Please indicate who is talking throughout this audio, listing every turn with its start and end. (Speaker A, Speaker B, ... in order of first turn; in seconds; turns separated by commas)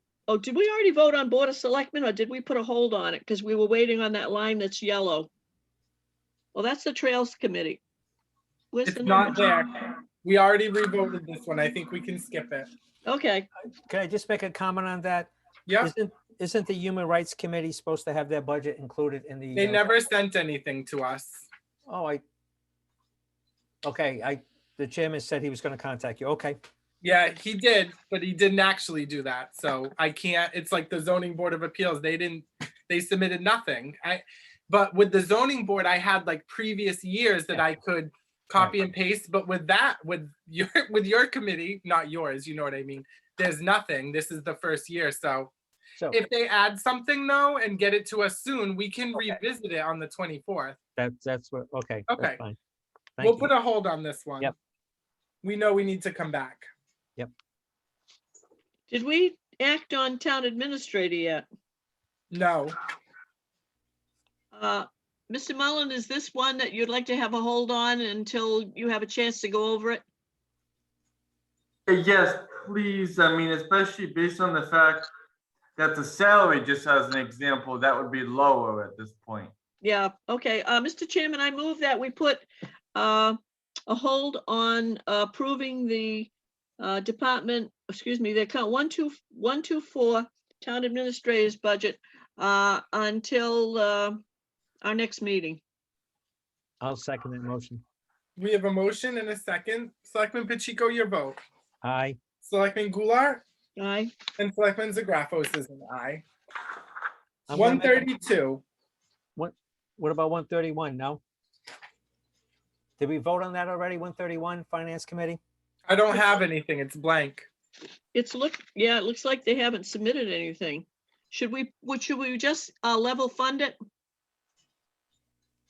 Speaker A: 0.3-5.3, Speaker A: 6.5-7.8, Speaker A: 8.7-9.4, Speaker B: 8.8-12.7, Speaker A: 13.1-13.5, Speaker C: 13.9-19.9, Speaker B: 15.7-15.9, Speaker B: 19.6-21.5, Speaker C: 21.9-22.2, Speaker C: 23.8-26.6, Speaker B: 27.0-45.5, Speaker B: 46.1-50.8, Speaker C: 51.0-52.6, Speaker B: 52.1-52.4, Speaker C: 53.2-53.5, Speaker B: 53.2-54.5, Speaker B: 55.4-56.7, Speaker A: 58.9-61.5, Speaker B: 62.3-62.8, Speaker A: 64.5-70.0, Speaker D: 71.9-75.1, Speaker D: 75.8-79.5, Speaker A: 79.8-94.2, Speaker A: 94.8-95.6, Speaker C: 96.8-97.8, Speaker B: 98.4-101.4, Speaker C: 101.8-102.2, Speaker B: 102.4-103.4, Speaker A: 103.8-104.1, Speaker B: 104.4-106.2, Speaker C: 107.5-108.1, Speaker B: 107.5-108.6, Speaker C: 109.4-111.2, Speaker C: 113.0-115.4, Speaker B: 115.9-117.5, Speaker A: 118.1-123.8